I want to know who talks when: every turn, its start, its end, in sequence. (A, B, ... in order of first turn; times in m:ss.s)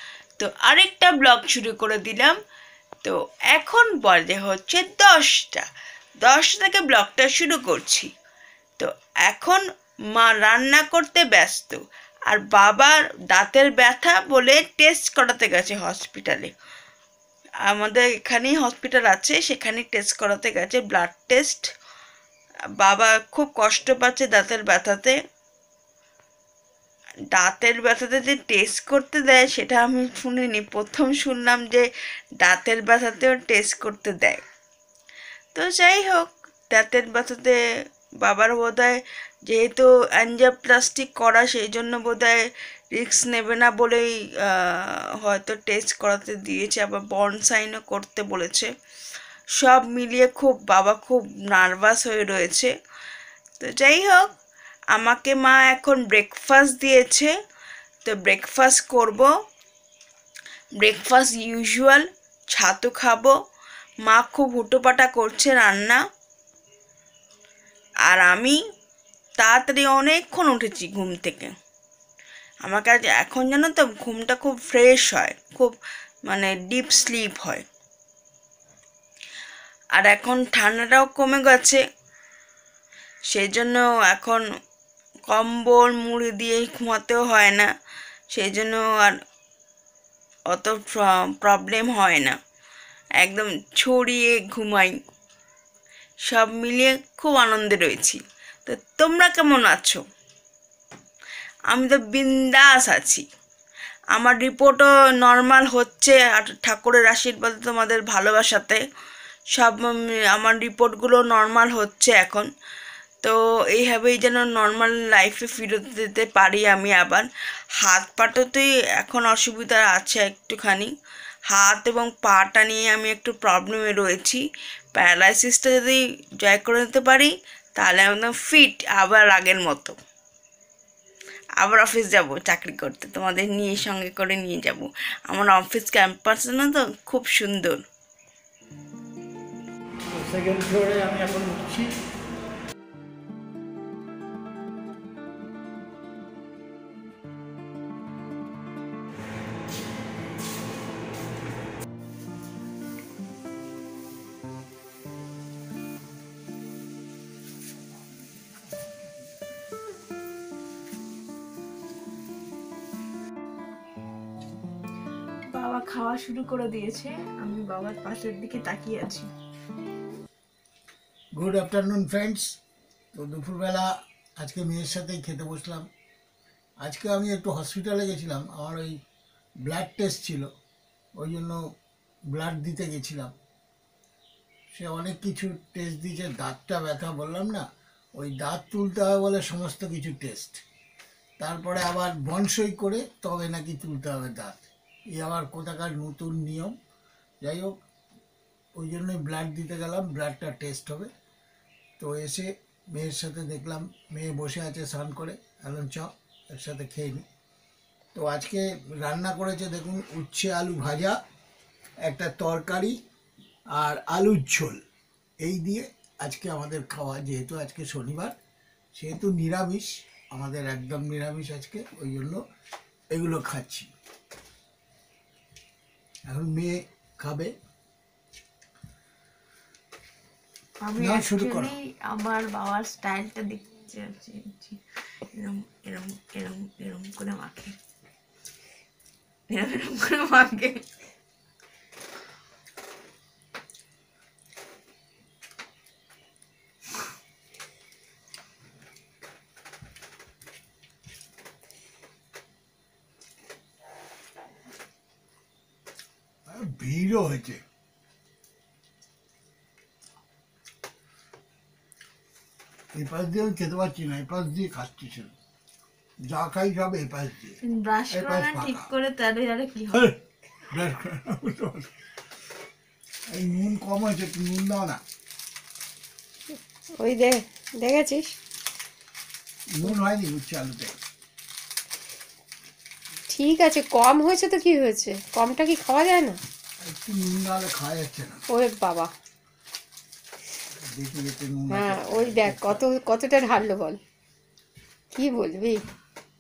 0:00.4-0:02.4 A
0:03.0-0:05.7 A
0:06.2-0:08.1 A
0:08.8-0:09.6 A
0:10.1-0:16.5 A
0:17.6-0:21.7 A
0:22.8-0:25.2 A
0:27.3-0:31.9 A
0:32.4-0:34.4 A
0:35.6-0:37.6 A
0:38.2-0:42.4 A
0:42.9-0:48.7 A
0:49.6-0:52.7 A
0:53.6-0:54.3 A
0:54.9-0:57.3 A
0:58.0-0:59.3 A
1:00.8-1:03.3 A
1:04.0-1:06.0 A
1:08.1-1:08.6 A
1:09.4-1:11.5 A
1:12.6-1:15.8 A
1:16.3-1:17.6 A
1:20.0-1:21.8 A
1:23.3-1:24.4 A
1:25.3-1:27.7 A
1:28.3-1:29.2 A
1:30.5-1:32.4 A
1:33.2-1:35.0 A
1:36.3-1:40.0 A
1:41.7-1:43.2 A
1:44.1-1:48.8 A
1:49.5-1:52.5 A
1:53.2-1:57.3 A
1:57.8-2:00.9 A
2:01.5-2:10.0 A
2:11.6-2:17.8 A
2:20.3-2:21.6 B
2:45.5-2:49.3 A
2:51.4-2:52.6 B
2:53.1-2:55.9 B
2:56.8-2:59.0 B
2:59.6-3:00.5 B
3:01.2-3:01.6 B
3:02.3-3:03.3 B
3:04.7-3:10.6 B
3:11.4-3:16.8 B
3:17.4-3:17.8 B
3:18.8-3:21.1 B
3:22.0-3:27.2 B
3:28.2-3:31.2 B
3:32.0-3:33.0 B
3:33.8-3:34.8 B
3:35.4-3:38.4 B
3:39.0-3:42.4 B
3:43.1-3:43.9 B
3:46.3-3:47.6 B
3:50.8-3:54.8 A
3:51.0-3:51.7 B
3:55.3-3:57.8 A
3:59.5-4:00.8 A
4:16.5-4:17.6 B
4:22.9-4:25.3 B
4:26.3-4:27.6 B
4:27.6-4:30.1 A
4:28.1-4:28.9 B
4:29.9-4:30.2 B
4:30.7-4:31.9 B
4:33.3-4:35.0 B
4:37.0-4:38.3 C
4:39.7-4:41.0 B
4:43.3-4:46.4 C
4:46.8-4:48.4 B
4:48.5-4:49.1 C
4:50.9-4:52.8 B
4:51.7-4:54.0 C
4:55.1-4:55.8 C